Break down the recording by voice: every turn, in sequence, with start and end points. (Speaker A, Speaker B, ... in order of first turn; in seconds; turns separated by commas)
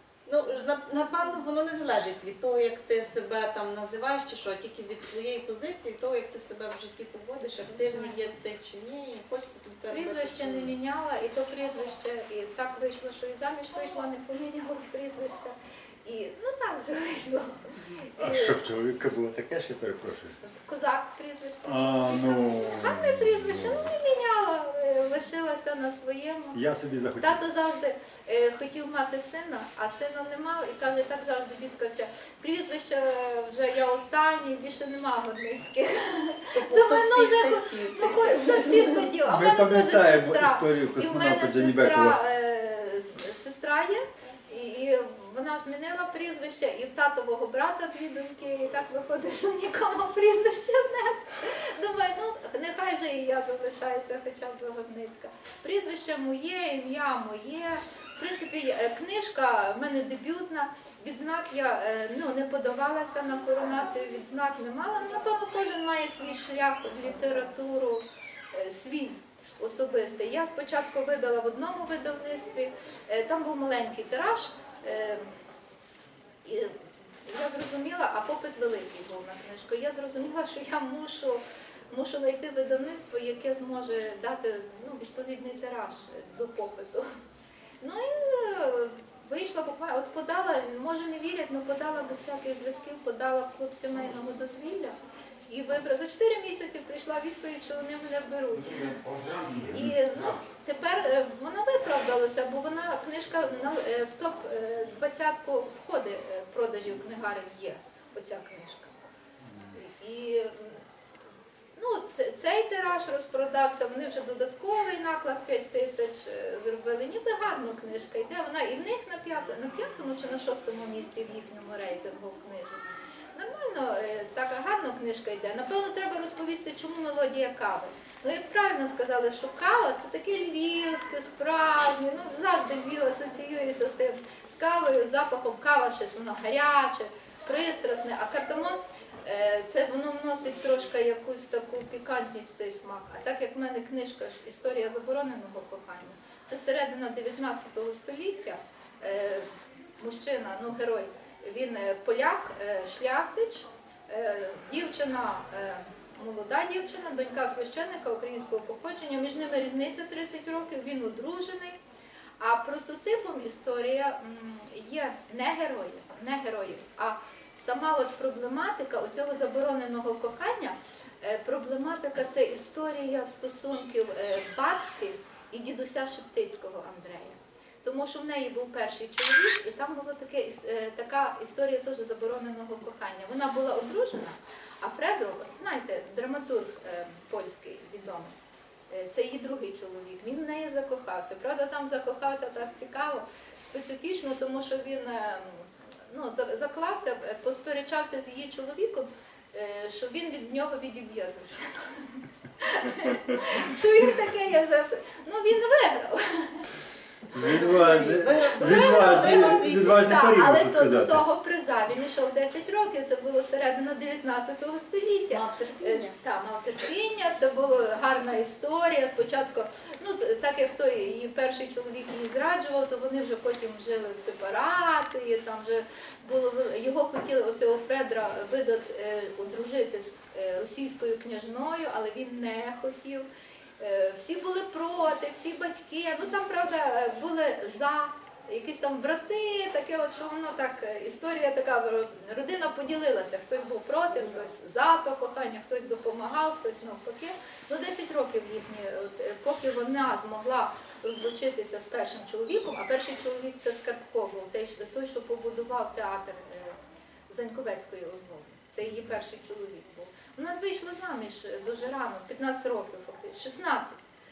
Speaker A: 0.2-10.7, Speaker B: 9.9-18.6, Speaker C: 18.2-20.4, Speaker B: 20.6-26.6, Speaker C: 21.6-23.9, Speaker C: 26.5-27.4, Speaker B: 27.2-75.3, Speaker A: 36.5-39.1, Speaker C: 39.2-42.2, Speaker B: 76.4-87.1, Speaker B: 87.8-109.0, Speaker B: 109.7-110.8, Speaker B: 111.8-149.5, Speaker B: 150.0-161.8, Speaker B: 162.4-188.3, Speaker B: 188.9-206.7, Speaker C: 207.3-211.2, Speaker B: 207.4-207.7, Speaker A: 207.4-210.4, Speaker B: 208.6-233.3, Speaker A: 215.3-216.1, Speaker B: 233.8-256.8, Speaker B: 257.3-264.0